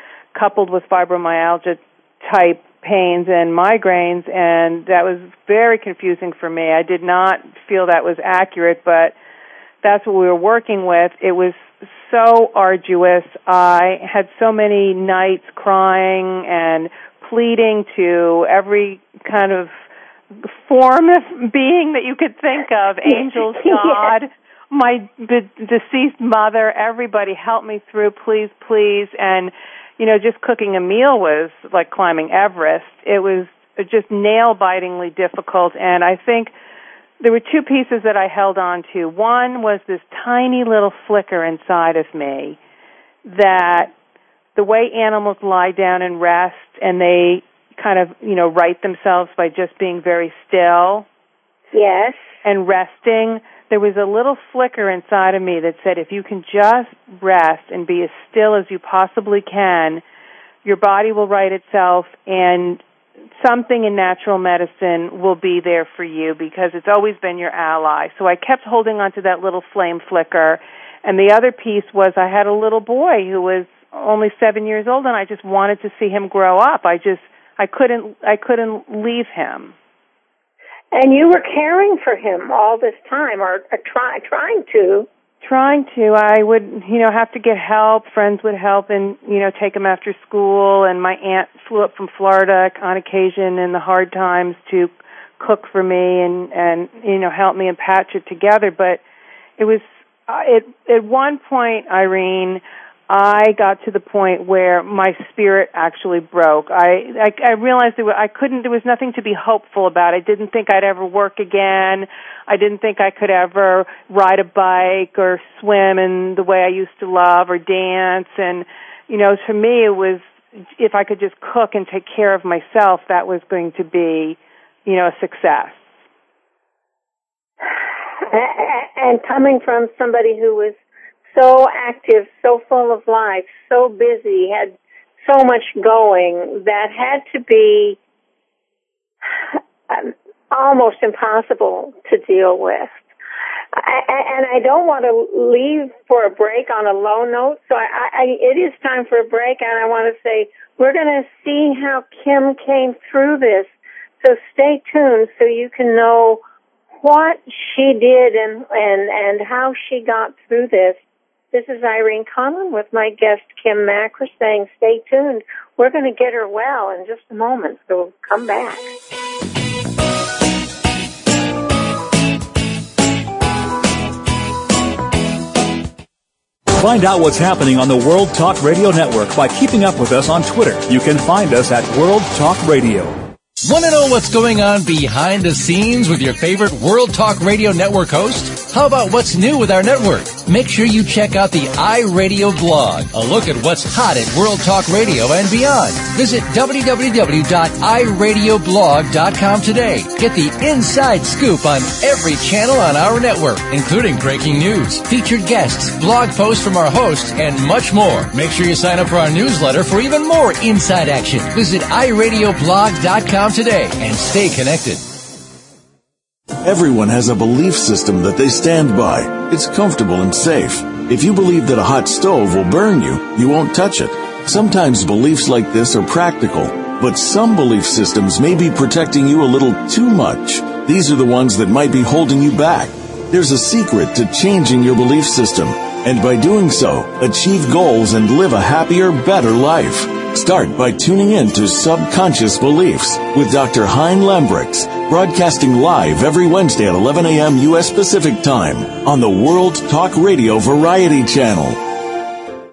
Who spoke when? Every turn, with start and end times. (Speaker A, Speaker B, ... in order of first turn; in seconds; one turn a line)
Speaker A: 0.3-9.1
Speaker A: 9.8-19.8
Speaker A: 20.3-36.5
Speaker B: 23.1-24.1
Speaker A: 37.2-42.6
Speaker A: 43.2-43.9
Speaker A: 44.5-51.1
Speaker B: 51.7-52.3
Speaker A: 52.4-60.0
Speaker A: 60.6-62.8
Speaker A: 63.4-79.7
Speaker B: 80.9-85.1
Speaker A: 85.4-99.0
Speaker A: 99.6-120.2
Speaker A: 120.8-125.8
Speaker B: 128.2-130.7
Speaker B: 131.3-134.7
Speaker B: 135.2-138.0
Speaker B: 139.5-143.0
Speaker B: 143.7-156.4
Speaker B: 157.0-161.0
Speaker B: 161.5-168.9
Speaker C: 176.7-183.2
Speaker D: 183.6-215.0
Speaker E: 216.6-251.8